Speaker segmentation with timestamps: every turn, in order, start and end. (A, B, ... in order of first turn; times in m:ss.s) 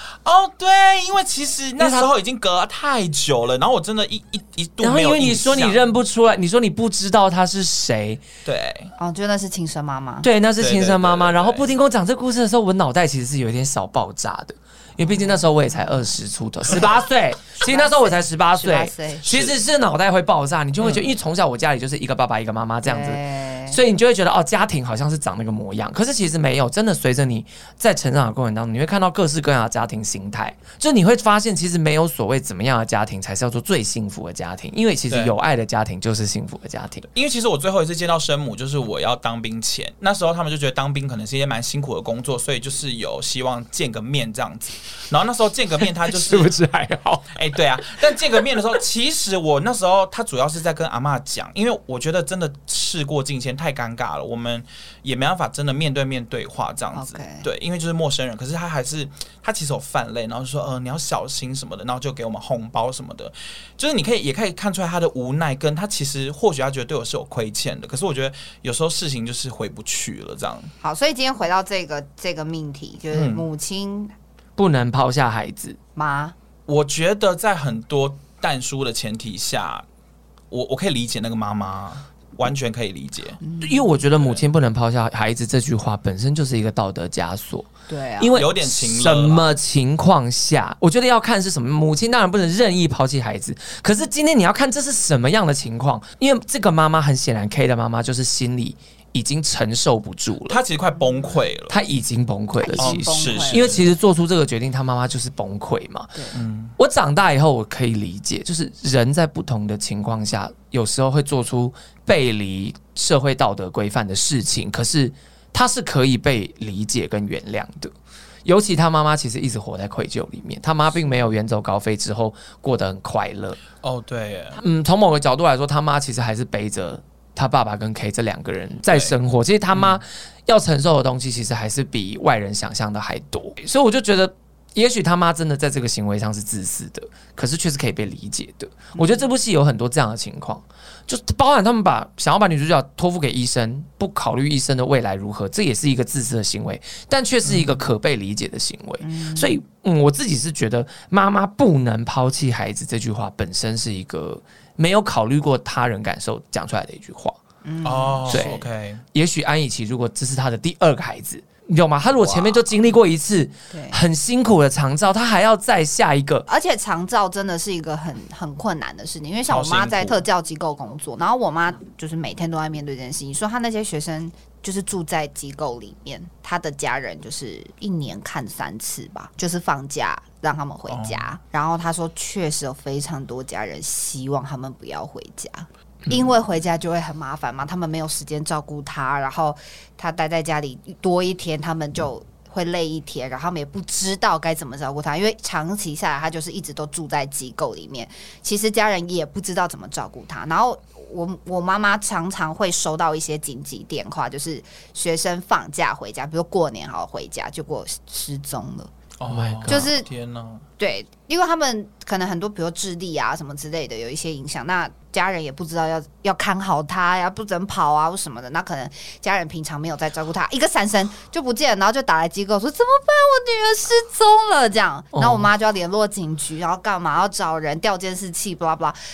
0:00.2-0:05.8 A
0:01.8-0:02.1 B
0:04.8-0:08.2 B
0:08.4-0:08.9 A
0:09.0-0:10.3 C
0:10.2-0:37.1 B
0:10.6-0:11.7 A
0:15.1-0:16.0 C
0:17.6-0:19.3 C
0:19.3-0:19.6 A
0:20.8-0:21.1 A
0:22.9-0:23.8 C
0:37.1-0:46.6 A
0:46.0-0:47.3 B
0:47.3-1:10.7 A
0:56.9-0:57.5 C
1:10.8-1:14.1 C
1:13.1-1:13.4 A
1:14.6-1:15.8 B
1:16.0-1:16.4 C
1:16.7-1:19.8 A
1:20.5-1:23.4 A
1:23.4-1:24.0 C
1:23.6-1:40.6 B
1:24.2-1:24.4 A
1:27.9-1:28.4 C
1:28.3-1:29.5 A
1:40.5-1:41.8 A
1:41.7-1:46.2 B
1:42.6-1:43.9 C
1:42.8-1:43.9 A
1:46.3-1:46.8 A
1:46.8-1:57.9 B
1:58.4-2:03.6 B
2:03.8-2:04.6 A
2:04.6-2:37.4 B
2:09.7-2:10.0 A
2:19.0-2:19.3 C
2:27.5-2:27.7 A
2:29.0-2:29.6 C
2:37.6-2:38.6 C
2:37.8-2:39.0 A
2:38.3-2:38.6 B
2:39.1-2:46.5 B
2:42.2-2:42.6 A
2:43.7-2:44.0 C
2:46.5-3:28.9 C
2:49.5-2:50.2 A
3:00.9-3:01.2 A
3:29.2-3:30.6 A
3:29.3-3:29.9 B
3:29.7-3:30.1 C
3:30.8-3:49.0 C
3:45.2-3:45.5 B